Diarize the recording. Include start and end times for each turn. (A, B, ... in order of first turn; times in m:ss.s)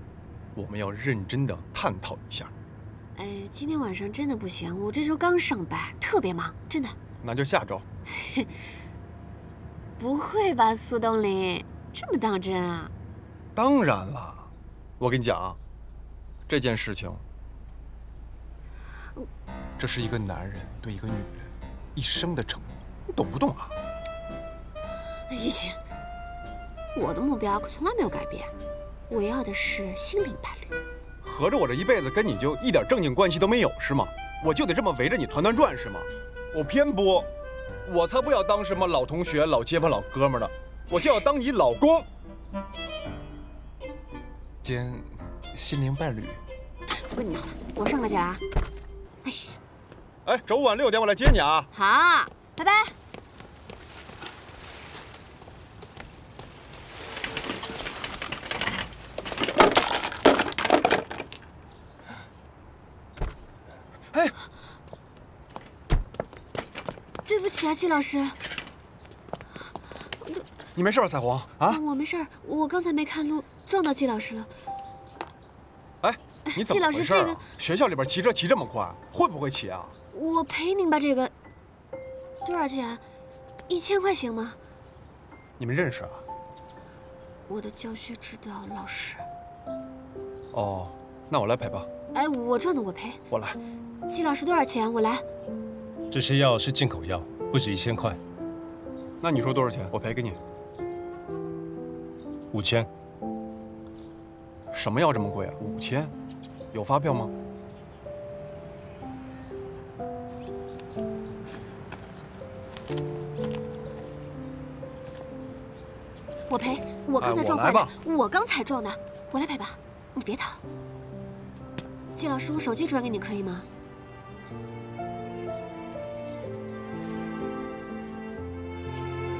0:00.6-0:02.5 A
0:03.2-0:07.0 B
0:07.2-0:07.9 A
0:08.2-0:08.5 B
0:10.0-0:12.9 B
0:13.6-0:15.6 A
0:16.5-0:17.2 A
0:19.8-0:23.7 A
0:25.3-0:25.8 B
0:27.0-0:28.5 B
0:29.1-0:30.7 B
0:31.2-0:37.3 A
0:37.9-0:42.1 A
0:44.6-0:46.4 A
0:47.1-0:48.4 B
0:49.2-0:49.6 B
0:50.3-0:51.7 A
0:51.7-0:52.9 B
1:07.3-1:08.4 B
1:10.8-1:11.8 A
1:11.7-1:14.5 B
1:16.0-1:19.9 A
1:16.5-1:17.4 B
1:20.1-1:21.3 B
1:22.4-1:23.0 B
1:23.7-1:24.6 B
1:25.6-1:26.2 A
1:27.5-1:29.3 B
1:30.5-1:31.9 A
1:32.1-1:33.2 B
1:33.3-1:33.6 A
1:34.1-1:35.2 B
1:36.1-1:38.2 C
1:39.2-1:40.4 A
1:42.5-1:42.9 C
1:44.7-1:46.1 A
1:46.7-1:47.3 A
1:56.5-2:00.6 B
1:57.2-1:58.0 A
2:02.2-2:03.7 B